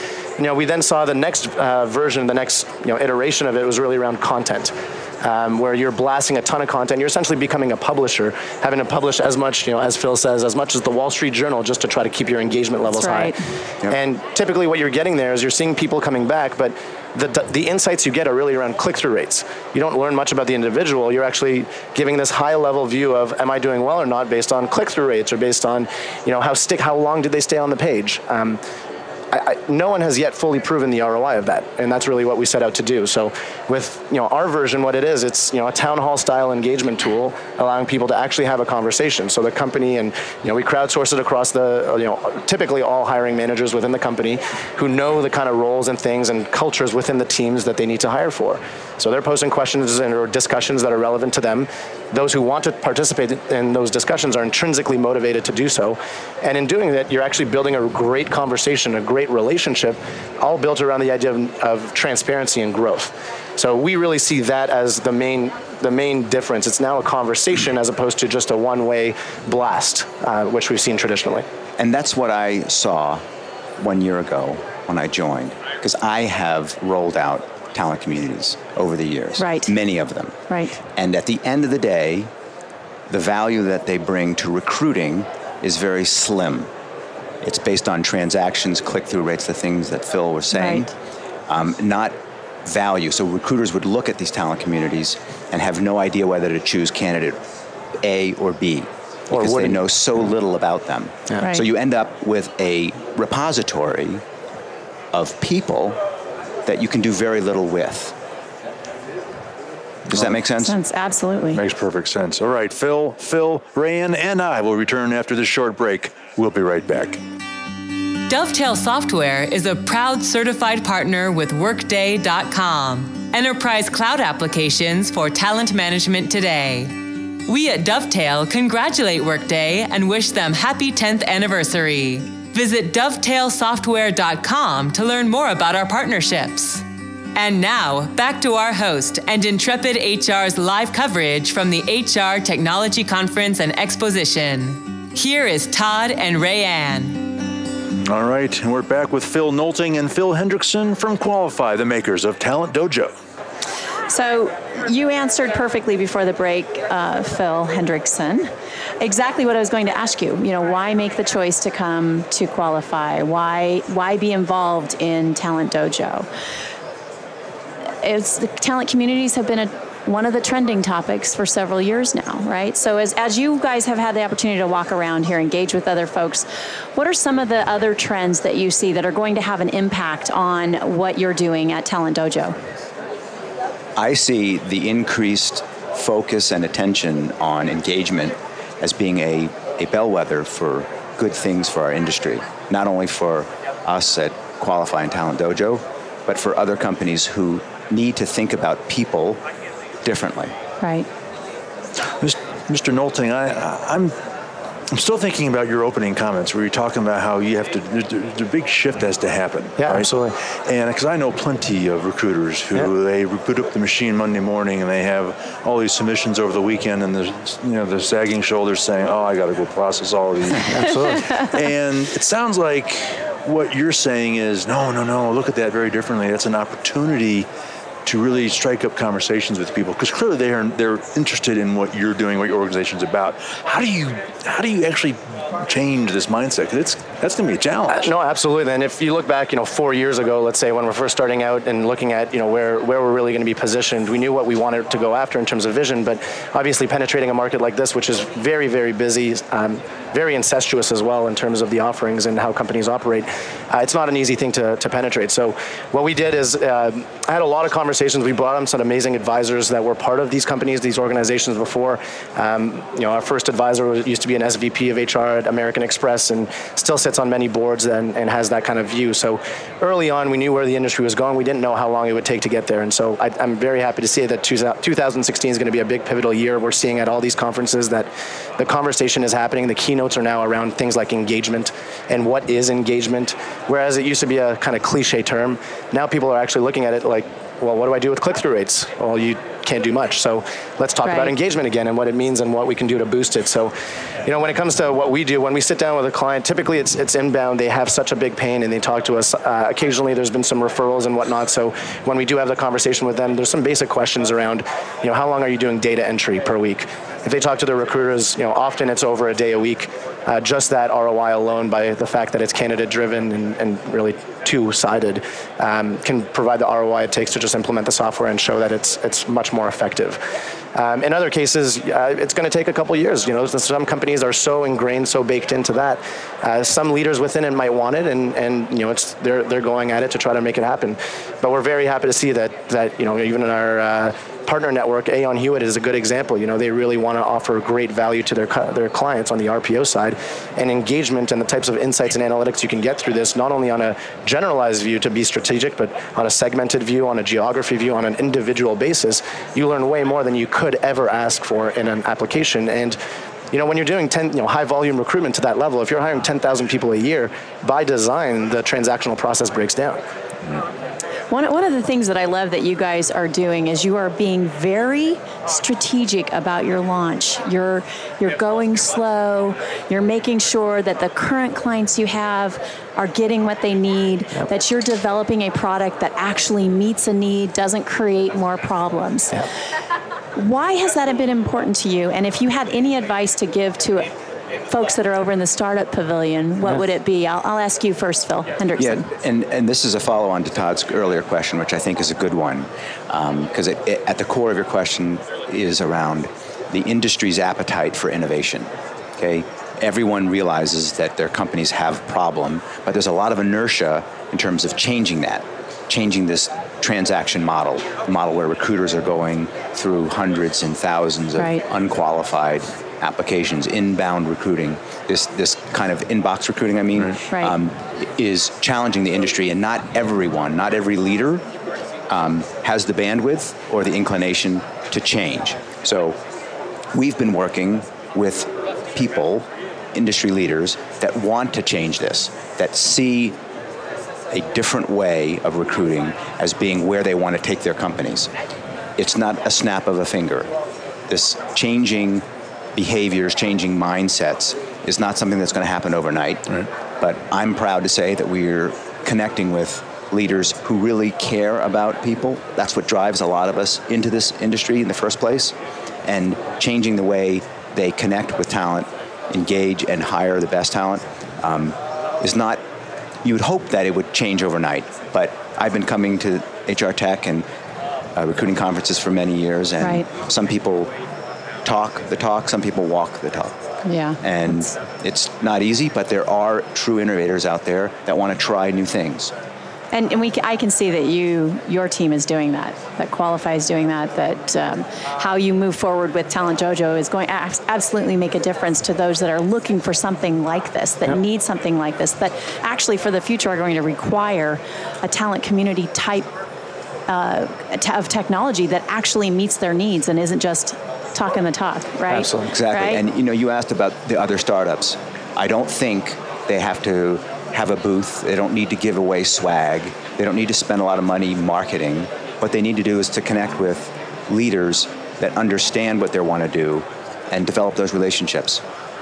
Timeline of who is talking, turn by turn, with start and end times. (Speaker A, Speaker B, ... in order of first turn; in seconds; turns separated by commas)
Speaker A: 0.4-13.3, Speaker B: 12.9-13.4, Speaker A: 13.8-28.6, Speaker A: 29.3-71.5, Speaker C: 71.8-73.2, Speaker C: 73.8-80.4, Speaker B: 79.4-79.7, Speaker B: 80.5-80.7, Speaker C: 80.9-82.3, Speaker C: 83.1-86.7, Speaker C: 87.4-90.9, Speaker B: 90.5-90.9, Speaker C: 91.5-97.4, Speaker C: 98.0-104.2, Speaker A: 99.3-99.8, Speaker B: 101.4-101.7, Speaker C: 105.1-106.0, Speaker C: 106.6-108.1, Speaker C: 110.1-110.8, Speaker B: 110.6-111.6, Speaker D: 111.5-117.2, Speaker E: 118.3-126.9, Speaker E: 127.5-147.3, Speaker D: 148.0-153.1, Speaker B: 154.1-158.5, Speaker B: 159.0-166.3, Speaker B: 168.0-182.6, Speaker C: 184.0-199.4, Speaker C: 200.0-200.6, Speaker B: 200.8-201.1, Speaker D: 202.2-204.1, Speaker D: 204.9-227.5, Speaker A: 209.8-210.3, Speaker A: 220.6-221.3, Speaker D: 228.0-238.1, Speaker A: 237.9-293.7, Speaker B: 291.0-291.3, Speaker A: 294.2-320.2, Speaker A: 320.7-353.0, Speaker A: 353.5-360.0, Speaker B: 361.3-379.4, Speaker B: 380.3-384.1, Speaker B: 384.7-389.1, Speaker C: 388.8-421.4, Speaker B: 411.4-411.6, Speaker B: 417.3-417.6, Speaker C: 422.1-426.2, Speaker C: 426.9-433.4, Speaker C: 434.3-438.3, Speaker C: 439.0-440.5, Speaker C: 441.1-462.6, Speaker C: 463.2-467.4, Speaker C: 468.1-470.9, Speaker B: 469.8-470.1, Speaker C: 471.6-473.6, Speaker B: 473.8-474.7, Speaker C: 474.2-479.3, Speaker B: 479.9-496.3, Speaker B: 497.1-503.0, Speaker A: 502.1-502.5, Speaker C: 502.4-518.6